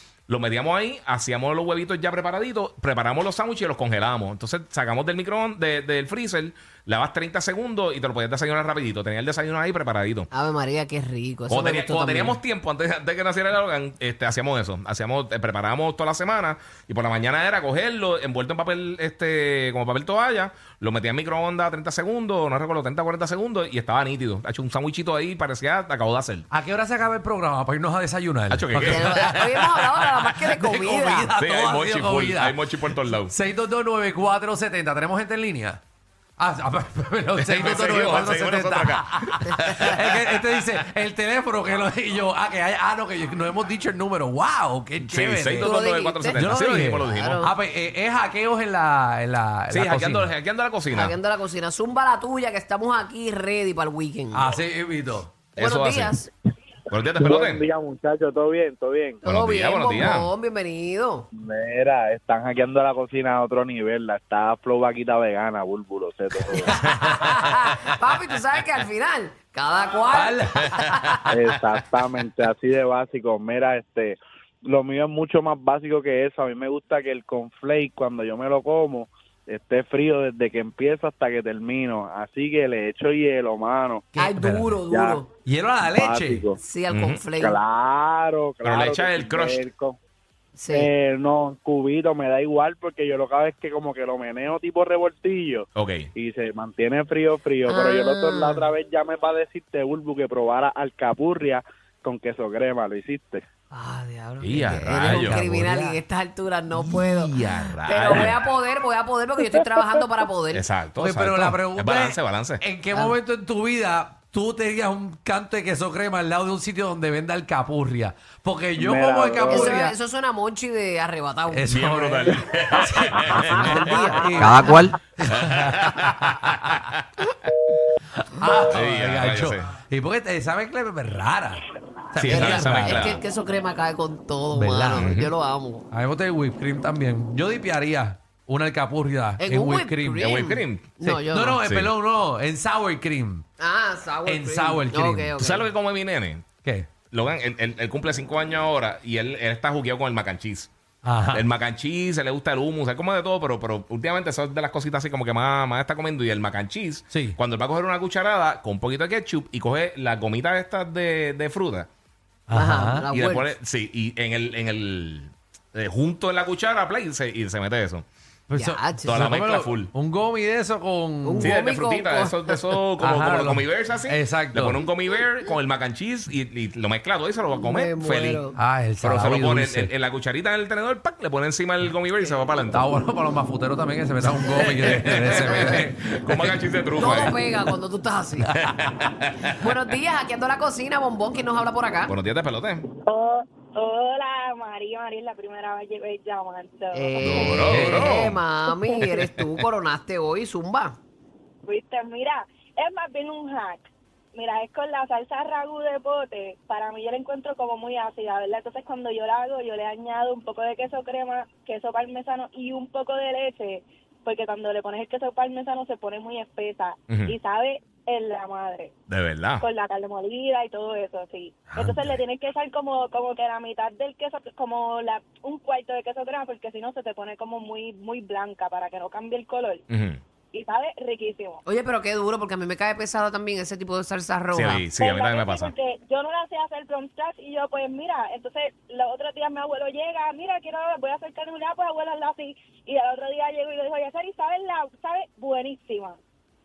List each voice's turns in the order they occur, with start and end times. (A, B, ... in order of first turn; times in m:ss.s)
0:00.3-0:10.3 A
0:10.3-0:12.4 B
0:11.5-0:26.5 A
0:26.5-0:35.8 C
0:28.5-0:30.0 A
0:28.8-0:31.3 B
0:31.4-0:33.3 A
0:36.4-0:45.7 C
0:37.4-0:40.1 A
0:39.5-0:39.9 B
0:45.1-0:47.4 A
0:45.6-0:46.5 B
0:46.3-0:50.3 C
0:47.0-0:47.5 B
0:49.7-0:51.1 A
0:50.9-0:54.4 B
0:54.3-0:55.4 C
0:55.6-0:56.2 A
0:55.6-0:56.3 B
0:56.9-0:57.6 A
0:57.2-0:59.2 D
0:59.2-1:01.3 B
0:59.2-1:00.3 A
1:01.3-1:06.8 D
1:06.6-1:07.9 C
1:06.7-1:11.3 B
1:10.1-1:11.2 C
1:11.3-1:24.0 D
1:24.2-1:25.3 B
1:24.2-1:24.8 C
1:24.8-1:25.2 D
1:25.4-1:26.4 C
1:25.9-1:26.6 D
1:26.6-1:27.6 B
1:26.9-1:27.2 A
1:27.4-1:30.0 D
1:28.6-1:29.6 A
1:30.5-1:30.9 B
1:30.7-1:43.4 D
1:35.8-1:36.0 A
1:37.7-1:38.6 B
1:43.7-1:50.6 B
1:44.4-1:45.4 A
1:45.1-1:46.0 C
1:46.8-1:48.4 A
1:50.5-1:52.6 A
1:51.0-1:59.9 C
1:52.9-1:53.2 B
1:58.8-1:59.8 D
1:59.5-2:02.4 B
2:01.5-2:06.8 C
2:01.7-2:04.1 A
2:03.4-2:04.9 B
2:04.2-2:04.6 D
2:05.3-2:07.5 A
2:08.1-2:13.0 C
2:08.7-2:09.7 A
2:12.2-2:13.2 A
2:12.2-2:15.8 B
2:14.5-2:15.1 C
2:15.0-2:15.3 A
2:15.9-2:20.3 C
2:19.4-2:21.6 B
2:20.2-2:21.0 A
2:21.0-2:23.4 C
2:21.6-2:21.9 A
2:23.6-2:25.7 B
2:24.2-2:25.4 C
2:25.4-2:26.5 A
2:26.6-2:26.9 C
2:27.1-2:30.7 A
2:31.0-2:31.5 C
2:31.3-2:41.9 A
2:37.1-2:37.4 C
2:42.5-2:43.0 C
2:42.5-2:43.5 B
2:43.1-2:48.0 A
2:48.5-2:51.5 C
2:48.5-2:49.3 B
2:49.0-2:49.9 A
2:51.2-2:52.6 B
2:51.4-2:58.4 A
2:53.0-2:54.8 C
2:57.6-2:58.6 B
2:58.5-2:59.9 C
2:59.0-3:02.9 A
3:02.6-3:06.5 C
3:04.4-3:07.4 A
3:05.4-3:05.8 B
3:06.9-3:08.5 B
3:08.4-3:08.7 C
3:08.6-3:09.5 A
3:09.6-3:12.1 B
3:12.1-3:12.8 A
3:13.0-3:18.1 E
3:16.9-3:21.0 B
3:17.2-3:18.4 A
3:17.7-3:18.0 C
3:21.6-3:38.9 E
3:37.1-3:37.3 A
3:39.1-3:39.6 A
3:39.6-3:49.8 E
3:41.7-3:42.2 C
3:49.9-3:50.2 A
3:50.5-3:51.6 E
3:51.6-3:54.8 B
3:54.5-3:55.7 A
3:54.9-4:06.2 E